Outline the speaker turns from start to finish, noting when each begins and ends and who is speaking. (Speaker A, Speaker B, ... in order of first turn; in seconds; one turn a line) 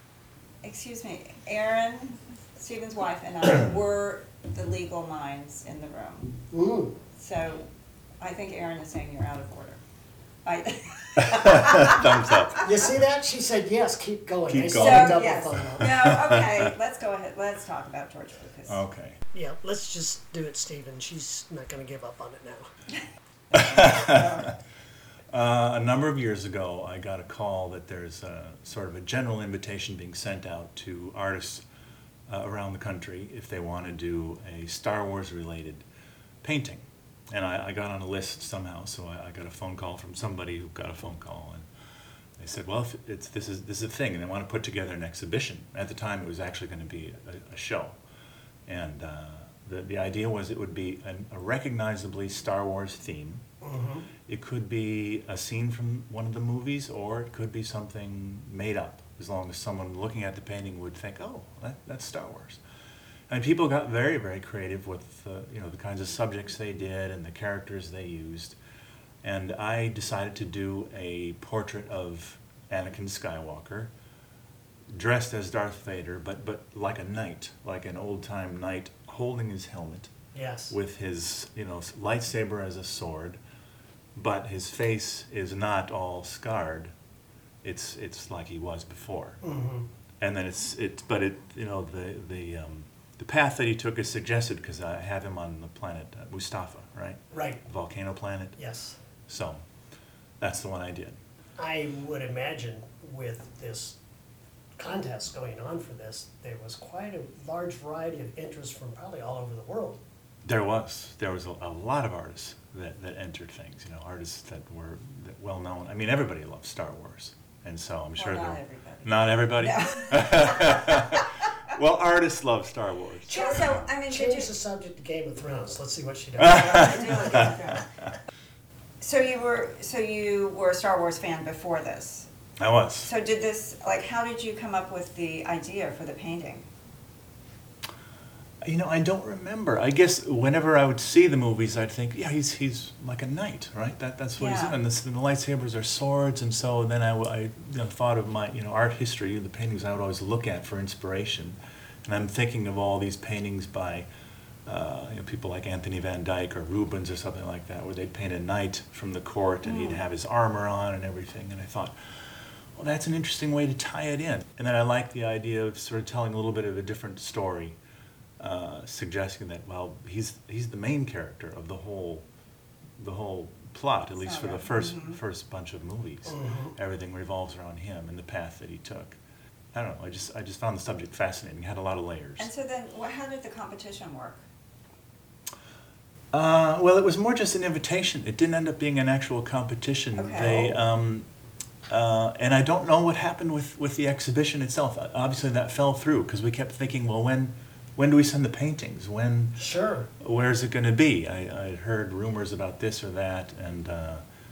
Speaker A: 0.6-6.4
Speaker B: 6.5-7.0
Speaker A: 7.2-7.7
Speaker A: 8.2-9.8
Speaker A: 10.4-12.6
Speaker C: 11.2-12.7
Speaker B: 12.6-15.9
Speaker C: 14.5-16.7
Speaker A: 14.7-18.8
Speaker C: 18.7-19.2
Speaker B: 19.3-22.7
Speaker A: 23.5-24.5
Speaker C: 23.5-24.6
Speaker C: 25.3-31.6
Speaker C: 32.3-35.8
Speaker C: 36.4-41.6
Speaker C: 42.4-48.0
Speaker C: 48.7-53.4
Speaker B: 53.6-54.1
Speaker C: 54.3-62.6
Speaker C: 63.3-68.6
Speaker C: 69.2-73.9
Speaker C: 74.9-80.1
Speaker B: 80.3-80.7
Speaker C: 80.7-83.4
Speaker C: 84.2-86.9
Speaker C: 87.6-89.4
Speaker B: 89.4-89.9
Speaker C: 90.2-98.6
Speaker B: 97.3-97.6
Speaker B: 98.6-99.0
Speaker C: 99.3-99.6
Speaker C: 100.4-101.2
Speaker B: 101.6-104.0
Speaker B: 104.8-110.0
Speaker C: 110.4-123.7
Speaker A: 118.2-121.2
Speaker A: 123.3-124.5
Speaker B: 123.3-127.5
Speaker A: 126.4-127.9
Speaker C: 126.4-128.1
Speaker A: 129.0-132.3
Speaker C: 132.6-133.1
Speaker A: 133.0-136.7
Speaker C: 138.6-154.1
Speaker A: 144.4-144.8
Speaker C: 154.7-162.2
Speaker A: 159.6-160.0
Speaker C: 162.8-167.8
Speaker C: 168.4-172.2
Speaker C: 173.0-179.2
Speaker A: 174.2-175.2
Speaker B: 176.3-176.7
Speaker C: 179.7-182.5
Speaker A: 182.4-184.4
Speaker C: 186.3-191.3
Speaker A: 190.2-190.8
Speaker C: 191.9-199.7
Speaker B: 199.6-200.1
Speaker C: 200.2-204.2